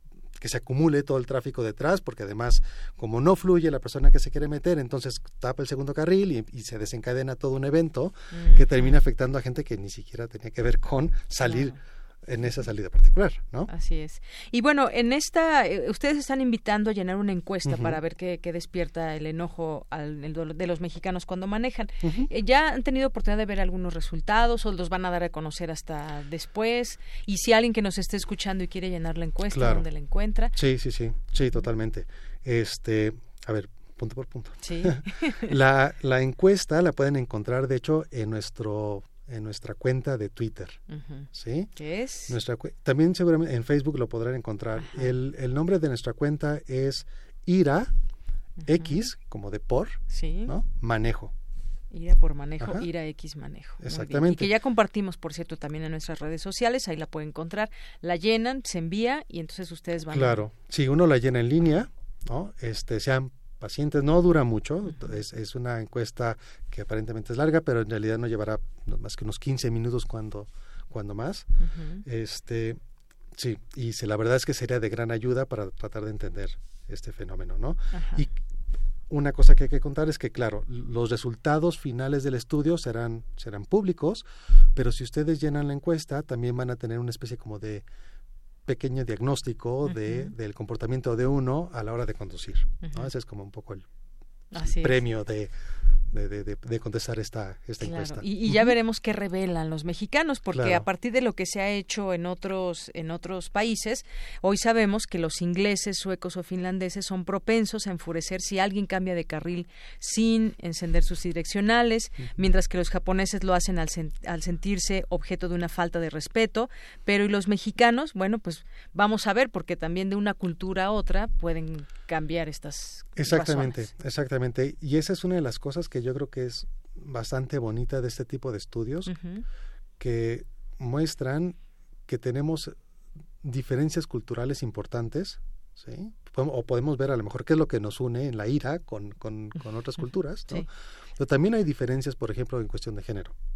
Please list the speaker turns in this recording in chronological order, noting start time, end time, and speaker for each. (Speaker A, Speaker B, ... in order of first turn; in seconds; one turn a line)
Speaker A: 0.4-13.7
Speaker B: 8.3-8.9
Speaker B: 11.4-11.7
Speaker B: 13.7-30.5
Speaker A: 17.6-18.0
Speaker A: 22.0-22.3
Speaker A: 29.5-29.9
Speaker A: 30.5-40.8
Speaker B: 34.6-35.5
Speaker B: 40.9-42.4
Speaker A: 41.3-41.7
Speaker A: 42.3-47.9
Speaker B: 44.8-45.1
Speaker B: 48.6-49.0
Speaker A: 48.6-51.3
Speaker B: 50.1-50.5
Speaker B: 51.9-60.4
Speaker A: 52.6-52.9
Speaker A: 53.8-54.5
Speaker A: 60.1-71.5
Speaker B: 64.8-65.2
Speaker B: 71.6-72.0
Speaker A: 72.0-72.8
Speaker A: 73.3-78.3
Speaker B: 77.9-78.2
Speaker A: 79.1-87.8
Speaker A: 88.7-93.8
Speaker B: 89.8-90.3
Speaker B: 92.8-93.1
Speaker B: 94.5-95.0
Speaker A: 94.6-95.5
Speaker A: 96.1-98.7
Speaker B: 97.8-123.9
Speaker A: 100.5-100.8
Speaker A: 123.2-129.1
Speaker B: 129.1-129.4
Speaker A: 130.0-132.7
Speaker A: 133.4-143.3